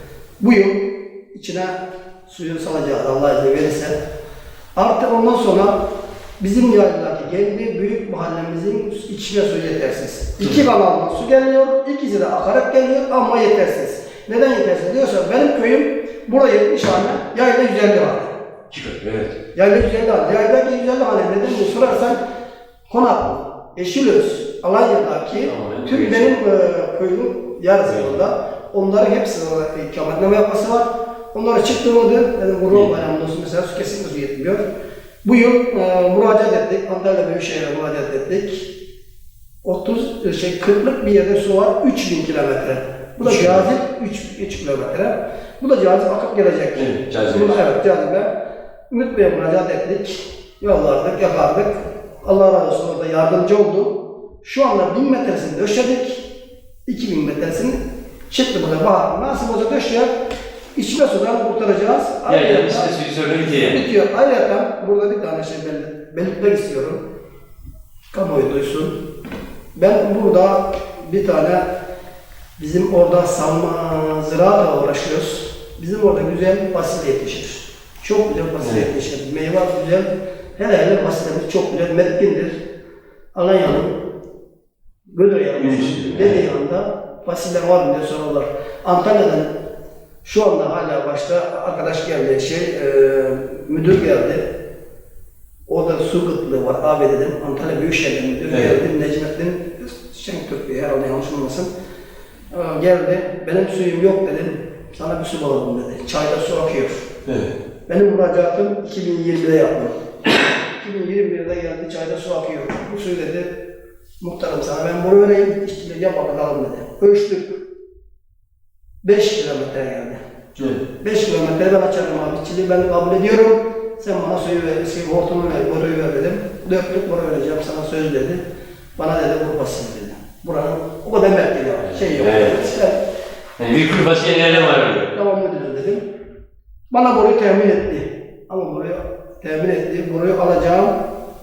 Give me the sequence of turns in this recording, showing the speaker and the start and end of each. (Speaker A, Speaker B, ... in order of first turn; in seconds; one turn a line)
Speaker A: 0.4-4.0
Speaker A: 4.8-5.8
Speaker A: 6.4-18.3
Speaker B: 18.7-19.4
Speaker A: 19.5-22.2
Speaker A: 22.9-34.6
Speaker B: 25.4-26.3
Speaker B: 27.8-28.2
Speaker A: 35.2-38.7
Speaker A: 39.6-48.3
Speaker B: 43.2-43.6
Speaker B: 46.7-47.6
Speaker A: 48.9-56.2
Speaker A: 56.9-60.1
Speaker A: 60.7-62.9
Speaker B: 62.3-63.8
Speaker A: 63.5-67.0
Speaker A: 68.1-69.0
Speaker A: 69.7-71.7
Speaker A: 72.6-82.6
Speaker B: 78.6-78.9
Speaker A: 83.3-84.0
Speaker A: 85.1-89.5
Speaker B: 85.6-86.4
Speaker A: 90.2-94.4
Speaker A: 95.7-101.7
Speaker A: 102.5-107.1
Speaker B: 107.2-107.5
Speaker A: 107.9-110.0
Speaker A: 110.7-113.5
Speaker A: 114.2-117.6
Speaker A: 119.0-120.2
Speaker B: 120.6-120.8
Speaker A: 121.0-128.4
Speaker A: 128.9-133.0
Speaker B: 131.8-132.7
Speaker B: 133.6-135.2
Speaker A: 134.3-136.0
Speaker A: 136.9-140.9